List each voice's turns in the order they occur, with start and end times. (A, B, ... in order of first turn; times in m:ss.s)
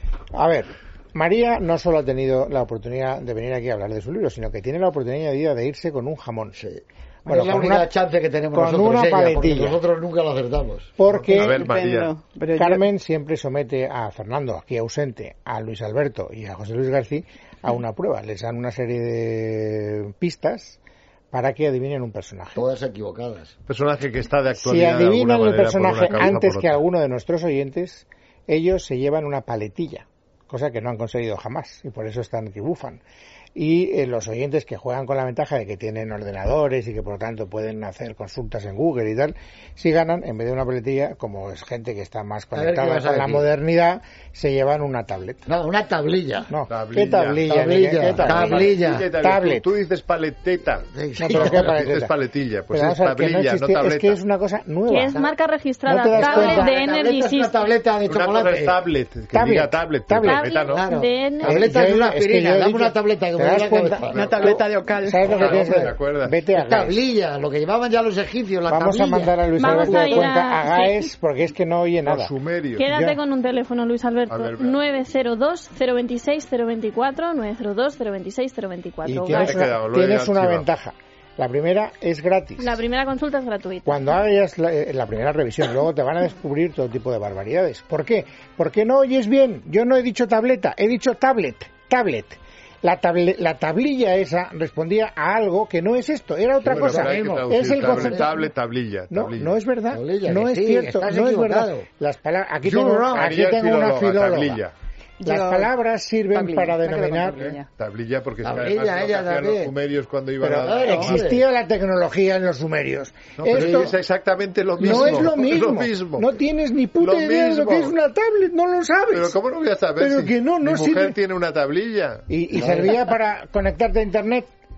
0:00.3-0:06.6 A
0:06.6-0:10.9 B
0:07.2-0:07.9 A
0:08.5-0:09.8 A
0:11.0-0:11.7 A
0:11.1-0:12.1 C
0:11.3-0:12.8 D
0:12.6-0:20.8 A
0:21.3-0:22.6 A
0:22.5-0:23.5 B
0:23.7-0:26.8 C
0:24.5-0:33.0 A
0:33.5-0:45.4 A
0:42.5-0:43.5 B
0:45.5-0:46.5 B
0:46.5-0:49.7 A
0:46.7-0:54.2 C
0:47.5-0:49.1 B
0:50.9-0:51.7 B
0:51.2-0:52.1 A
0:52.7-0:55.2 A
0:54.9-0:57.5 E
0:54.9-0:55.3 B
0:55.8-0:56.9 A
0:56.1-0:58.8 B
0:58.0-1:00.8 C
0:59.3-1:00.4 A
1:00.2-1:01.6 E
1:00.7-1:04.2 B
1:01.4-1:07.0 A
1:04.1-1:05.3 D
1:04.2-1:04.5 C
1:05.3-1:05.9 B
1:05.3-1:06.4 C
1:06.5-1:10.3 B
1:08.7-1:12.3 A
1:09.6-1:11.1 E
1:12.0-1:12.9 C
1:12.8-1:19.6 E
1:12.8-1:13.2 A
1:14.3-1:14.8 C
1:19.0-1:22.8 A
1:19.3-1:20.7 C
1:22.6-1:24.0 E
1:23.8-1:38.5 A
1:36.6-1:38.3 B
1:36.7-1:39.6 C
1:39.1-1:44.6 A
1:39.9-1:41.9 B
1:42.6-1:43.3 B
1:43.0-1:44.7 C
1:45.2-1:45.7 D
1:45.2-1:47.5 A
1:46.3-1:47.7 D
1:47.4-1:51.2 C
1:48.4-1:49.7 B
1:50.4-1:54.0 A
1:50.6-1:51.4 B
1:50.8-1:51.1 D
1:53.4-1:54.0 B
1:53.5-1:56.4 C
1:54.8-1:59.4 A
1:54.8-1:55.3 B
1:57.0-1:58.0 C
1:59.1-2:02.2 C
2:00.0-2:01.2 A
2:02.3-2:04.5 A
2:02.5-2:03.0 B